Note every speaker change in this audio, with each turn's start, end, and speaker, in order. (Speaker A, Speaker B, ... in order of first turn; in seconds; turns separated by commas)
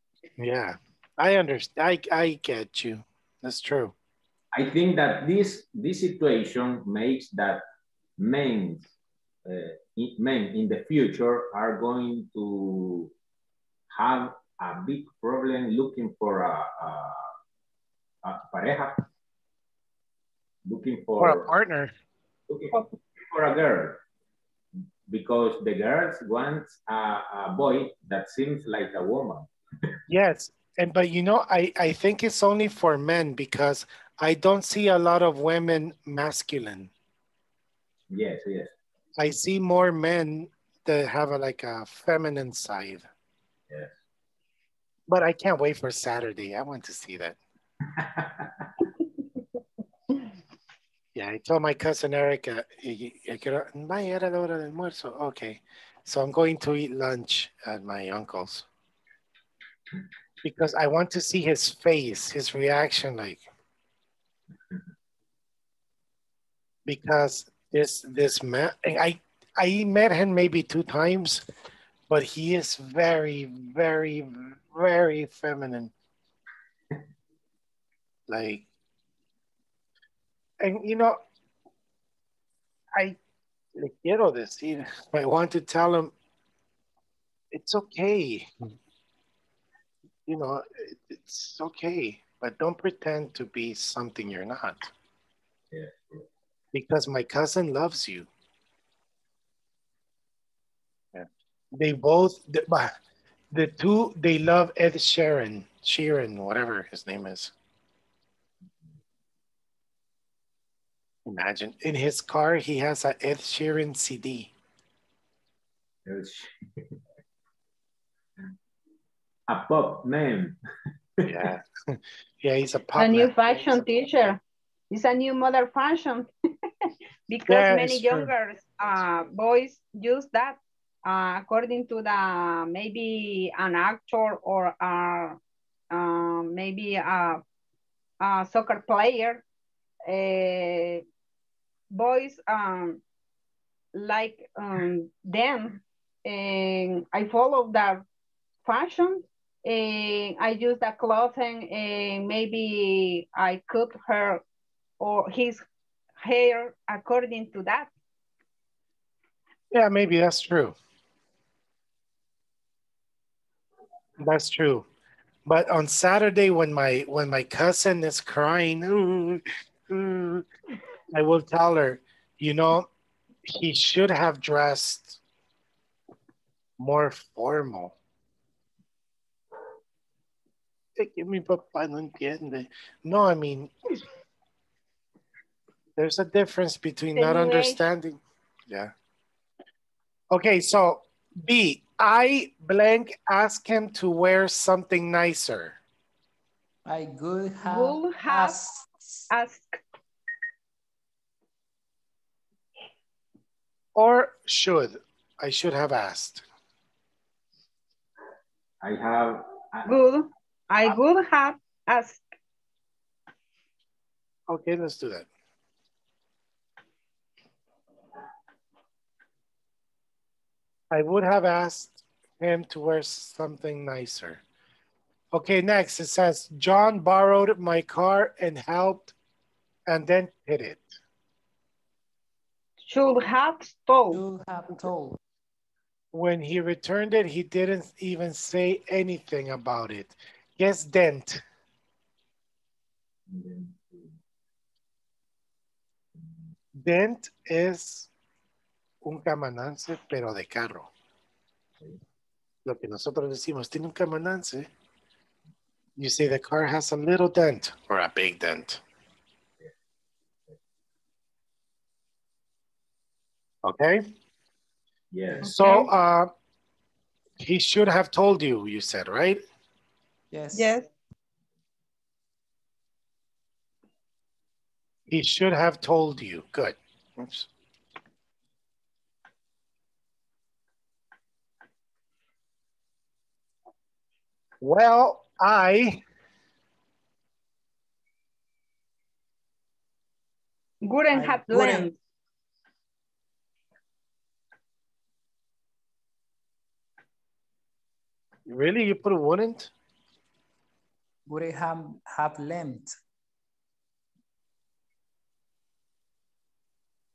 Speaker A: 0.4-3.9, Speaker B: 4.5-7.6, Speaker B: 8.2-8.9, Speaker B: 9.4-13.1, Speaker B: 13.9-17.3, Speaker B: 18.2-19.1, Speaker B: 20.6-21.5, Speaker A: 21.2-21.9, Speaker B: 22.5-24.0, Speaker B: 25.1-29.5, Speaker A: 30.1-36.9, Speaker B: 38.1-38.7, Speaker A: 39.2-43.1, Speaker A: 45.1-47.4, Speaker B: 48.0-48.7, Speaker A: 51.1-58.7, Speaker A: 60.4-63.4, Speaker A: 66.9-71.4, Speaker A: 72.1-75.9, Speaker A: 78.3-78.7, Speaker A: 80.6-81.2, Speaker A: 83.8-86.1, Speaker A: 87.5-88.5, Speaker A: 90.3-94.9, Speaker B: 95.7-96.3, Speaker A: 96.7-98.3, Speaker A: 101.1-103.0, Speaker A: 103.5-107.5, Speaker A: 111.3-114.5, Speaker B: 116.1-116.5, Speaker B: 119.5-120.6, Speaker A: 121.2-123.8, Speaker C: 123.0-124.4, Speaker C: 124.9-126.3, Speaker C: 127.3-135.4, Speaker A: 127.5-128.3, Speaker C: 135.9-137.4, Speaker C: 138.2-139.4, Speaker C: 140.1-141.0, Speaker C: 141.9-143.0, Speaker C: 143.9-148.0, Speaker C: 148.7-154.4, Speaker C: 155.0-155.6, Speaker C: 156.2-157.9, Speaker A: 159.7-160.8, Speaker A: 164.2-164.9, Speaker A: 165.5-170.5, Speaker A: 171.1-172.9, Speaker A: 173.5-175.2, Speaker A: 176.8-177.9, Speaker A: 181.0-183.7, Speaker A: 186.0-188.9, Speaker C: 187.2-187.8, Speaker A: 190.3-195.8, Speaker D: 196.9-199.2, Speaker C: 197.6-198.7, Speaker C: 199.3-199.8, Speaker A: 203.9-206.4, Speaker B: 208.8-209.9, Speaker C: 209.9-212.2, Speaker A: 214.5-215.3, Speaker A: 220.9-224.4, Speaker A: 225.3-229.1, Speaker A: 229.9-231.0, Speaker C: 232.8-234.2, Speaker D: 234.1-235.2, Speaker A: 236.1-241.4, Speaker B: 243.3-244.2, Speaker A: 246.8-248.1, Speaker A: 249.0-250.9, Speaker A: 252.7-254.7, Speaker A: 256.0-258.8, Speaker A: 263.6-264.0, Speaker B: 265.1-265.5, Speaker C: 265.5-265.9, Speaker A: 265.5-266.3, Speaker A: 267.4-269.4, Speaker D: 270.3-270.8, Speaker C: 270.5-270.9, Speaker A: 275.1-277.5, Speaker A: 284.6-286.0, Speaker C: 290.8-292.0, Speaker D: 291.1-291.9, Speaker A: 298.5-299.7, Speaker D: 301.3-302.9